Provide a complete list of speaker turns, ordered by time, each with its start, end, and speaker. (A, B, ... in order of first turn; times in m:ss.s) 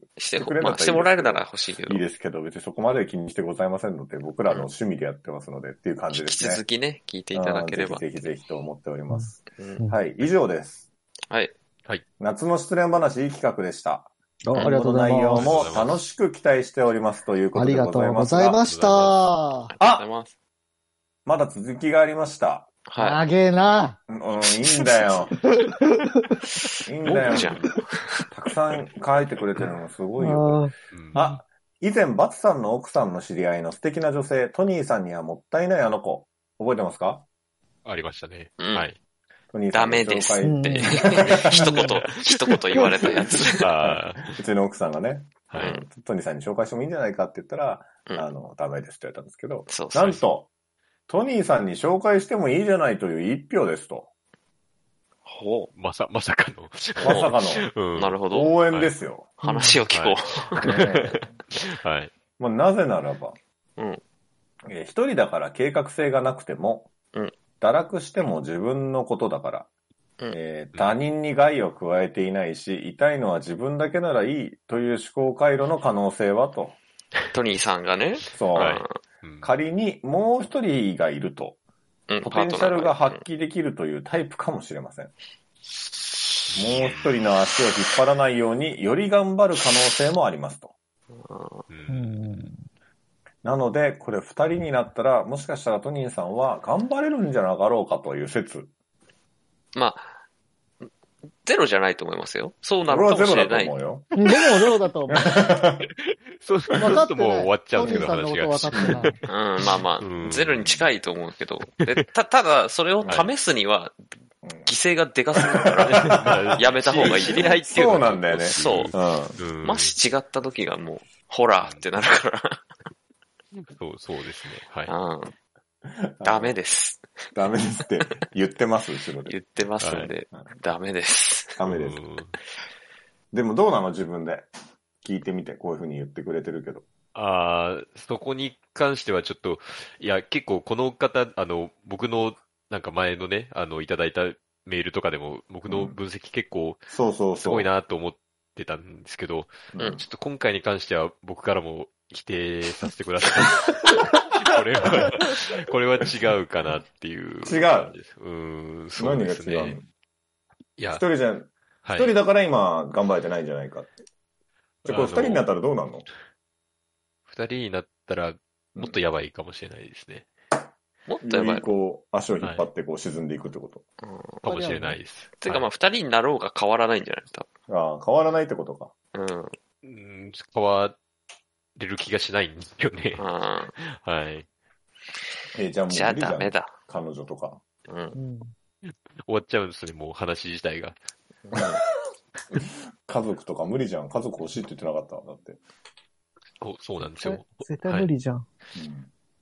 0:00.2-0:02.0 A
0:00.3-0:06.6 B
0:06.1-0:08.0 A
0:07.3-0:10.8 B
0:09.1-0:10.0 C
0:12.2-0:18.6 B
0:14.4-0:15.6 C
0:15.3-0:16.0 D
0:17.5-0:19.7 C
0:18.6-0:19.2 D
0:19.7-0:20.3 A
0:21.2-0:22.7 B
0:22.9-0:23.2 A
0:23.0-0:24.0 C
0:24.1-0:25.4 B
0:25.5-0:26.4 C
0:26.6-0:28.2 A
0:26.8-0:27.7 B
0:28.3-0:37.2 B
0:30.2-0:30.7 C
0:30.9-0:31.2 D
0:37.8-0:39.0 D
0:38.6-0:38.8 A
0:39.5-0:41.8 B
0:39.7-0:43.7 A
0:40.4-0:41.0 C
0:41.3-0:44.4 D
0:41.6-0:41.9 C
0:43.1-0:50.5 B
0:45.5-0:45.8 D
0:45.6-0:45.8 A
0:49.7-0:50.2 A
0:51.1-0:54.1 B
0:55.2-0:55.7 A
0:55.7-0:58.2 D
0:57.0-0:57.7 B
0:57.0-0:57.3 A
0:57.9-0:58.5 A
0:58.3-0:59.3 B
0:59.4-1:00.7 A
0:59.4-0:59.8 C
0:59.9-1:02.1 D
1:00.6-1:01.4 B
1:02.4-1:03.4 B
1:04.7-1:06.9 B
1:07.6-1:09.7 B
1:10.3-1:16.8 B
1:17.3-1:19.0 A
1:18.3-1:18.8 B
1:18.5-1:19.5 D
1:19.4-1:21.6 B
1:22.1-1:23.2 A
1:22.2-1:25.1 B
1:26.5-1:27.1 D
1:26.5-1:30.7 B
1:31.1-1:31.6 A
1:31.7-1:32.5 D
1:31.9-1:32.6 C
1:33.4-1:38.7 B
1:39.7-1:40.1 A
1:41.4-1:43.7 A
1:42.9-1:44.1 B
1:44.2-1:45.3 C
1:45.1-1:45.9 B
1:45.9-1:50.8 D
1:46.8-1:49.2 C
1:48.8-1:49.1 B
1:49.3-1:54.0 A
1:54.4-1:54.7 B
1:54.6-1:57.7 A
1:55.3-1:59.4 B
1:55.9-1:59.9 D
1:58.5-1:58.9 A
1:59.6-2:02.6 A
2:03.6-2:04.9 D
2:04.9-2:05.3 A
2:05.9-2:06.6 B
2:06.2-2:07.3 A
2:07.3-2:09.3 B
2:09.2-2:11.6 A
2:09.8-2:10.1 D
2:11.6-2:12.0 B
2:11.7-2:12.4 D
2:13.3-2:14.5 B
2:15.0-2:16.8 B
2:17.1-2:26.9 D
2:25.7-2:26.0 B
2:26.9-2:27.7 B
2:27.4-2:39.8 D
2:29.7-2:30.0 B
2:37.4-2:37.9 B
2:39.0-2:39.8 B
2:40.8-2:41.0 D
2:40.9-2:43.9 B
2:41.8-2:42.1 D
2:44.8-2:45.5 D
2:44.8-2:46.1 B
2:47.3-2:50.3 D
2:51.1-2:51.7 A
2:51.2-2:53.8 B
2:52.4-2:52.6 D
2:54.0-2:54.4 A
2:54.4-2:55.6 D
2:54.4-2:55.0 C
2:55.4-2:57.5 A
2:57.7-2:58.9 B
2:59.1-2:59.5 A
2:59.8-3:01.0 D
3:01.8-3:04.4 D
3:03.2-3:03.7 A
3:05.5-3:07.6 B
3:05.9-3:06.7 A
3:07.9-3:08.2 A
3:08.1-3:08.5 C
3:08.8-3:11.0 D
3:11.4-3:11.8 A
3:11.5-3:11.8 B
3:12.5-3:15.6 B
3:16.6-3:18.1 D
3:17.1-3:18.4 C
3:18.8-3:19.1 B